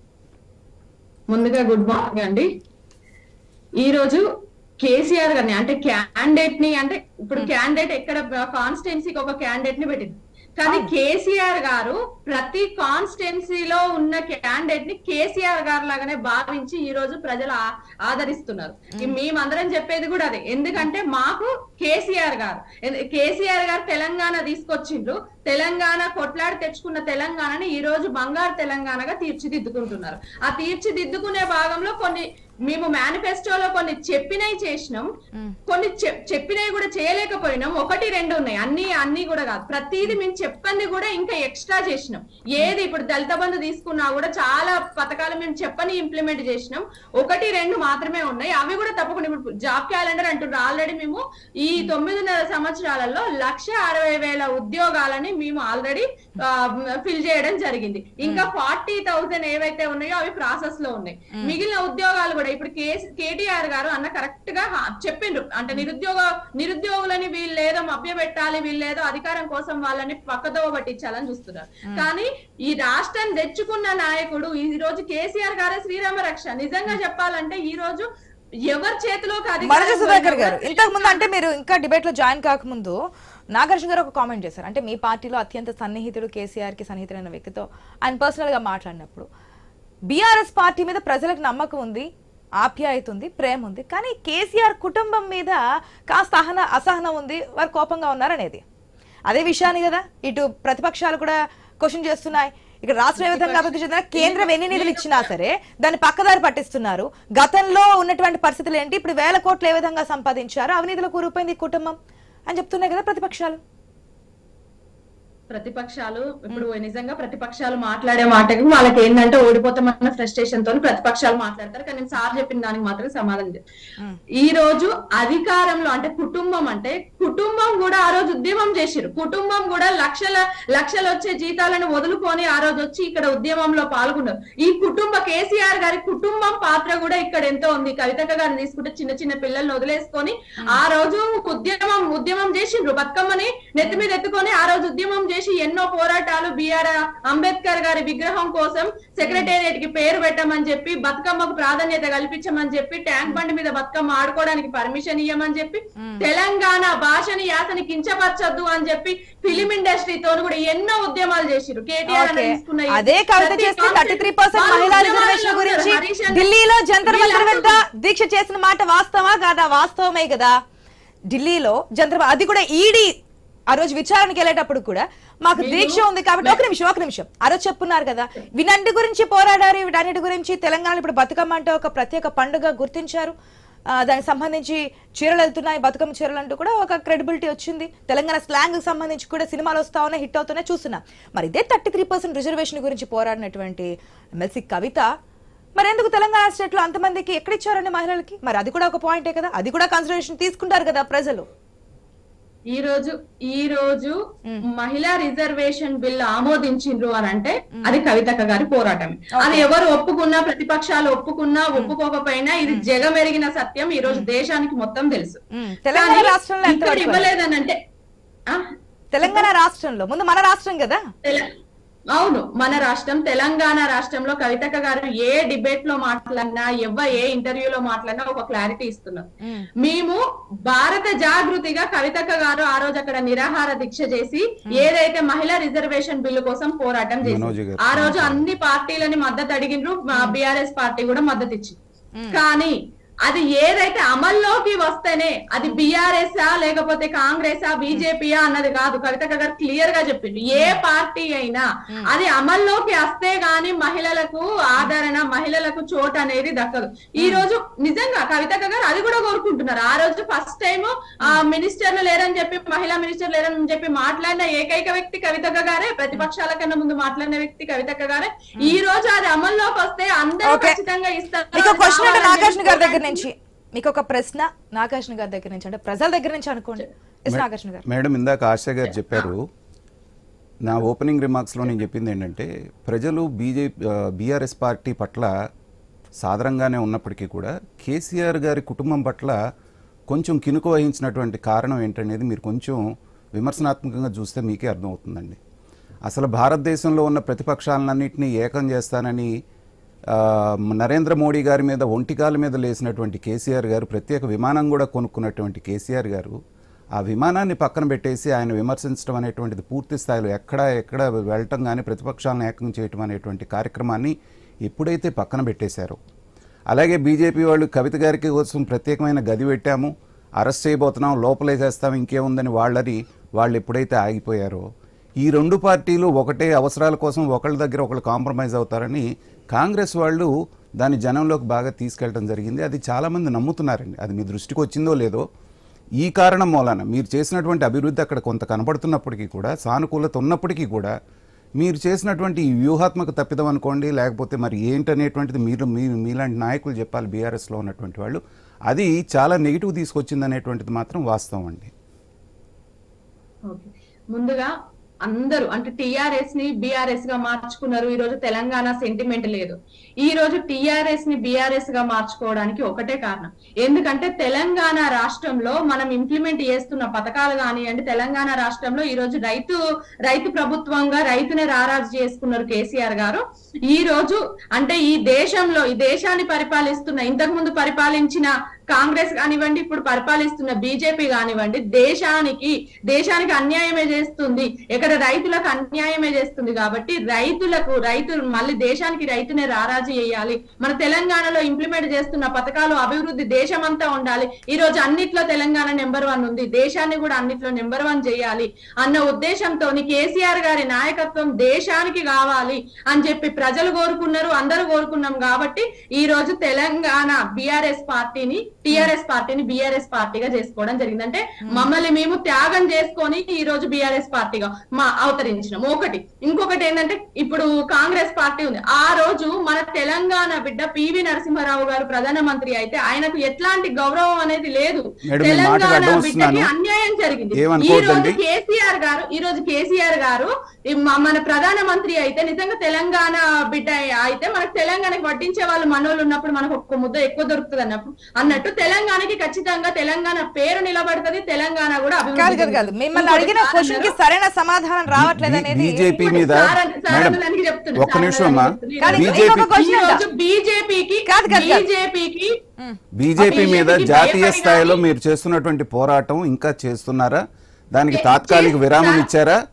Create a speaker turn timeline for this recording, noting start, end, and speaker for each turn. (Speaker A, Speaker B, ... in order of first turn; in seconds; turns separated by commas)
Speaker A: 1.3-2.5, Speaker A: 3.8-4.2, Speaker A: 4.8-35.1, Speaker A: 35.7-78.1, Speaker B: 58.2-58.5, Speaker A: 78.7-81.3, Speaker B: 79.6-83.0, Speaker B: 83.5-89.3, Speaker B: 90.1-92.1, Speaker B: 92.6-98.6, Speaker B: 99.3-112.0, Speaker A: 103.2-105.3, Speaker B: 112.5-113.6, Speaker A: 115.5-123.6, Speaker A: 124.4-166.5, Speaker B: 149.2-149.5, Speaker B: 156.0-156.2, Speaker B: 162.1-170.5, Speaker A: 167.1-167.8, Speaker B: 171.3-173.1, Speaker B: 173.7-183.3, Speaker A: 175.6-176.6, Speaker B: 183.9-195.1, Speaker B: 195.8-201.4, Speaker A: 202.7-204.2, Speaker A: 204.7-217.8, Speaker B: 209.3-209.7, Speaker B: 215.6-217.3, Speaker B: 219.1-221.0, Speaker A: 219.2-219.5, Speaker A: 222.1-229.2, Speaker A: 229.8-241.8, Speaker C: 237.2-238.5, Speaker A: 242.3-273.2, Speaker B: 250.5-250.8, Speaker B: 257.2-257.4, Speaker B: 270.4-270.8, Speaker B: 271.5-277.8, Speaker C: 277.3-279.4, Speaker A: 278.8-279.3, Speaker C: 280.6-285.3, Speaker C: 286.2-289.4, Speaker C: 290.1-292.8, Speaker C: 293.4-295.4, Speaker C: 296.1-299.3, Speaker C: 300.1-306.4, Speaker C: 306.9-314.1, Speaker C: 314.6-316.0, Speaker C: 316.7-324.6, Speaker C: 325.2-335.2, Speaker C: 336.0-340.9, Speaker C: 341.6-351.7, Speaker A: 353.5-354.5, Speaker A: 355.0-443.9, Speaker C: 425.1-426.5, Speaker C: 427.4-428.2, Speaker B: 442.1-445.9, Speaker C: 444.9-447.2, Speaker A: 445.9-452.3, Speaker C: 447.8-449.5, Speaker B: 448.8-450.0, Speaker B: 451.1-451.6, Speaker C: 453.0-459.4, Speaker A: 453.2-454.8, Speaker A: 457.9-459.1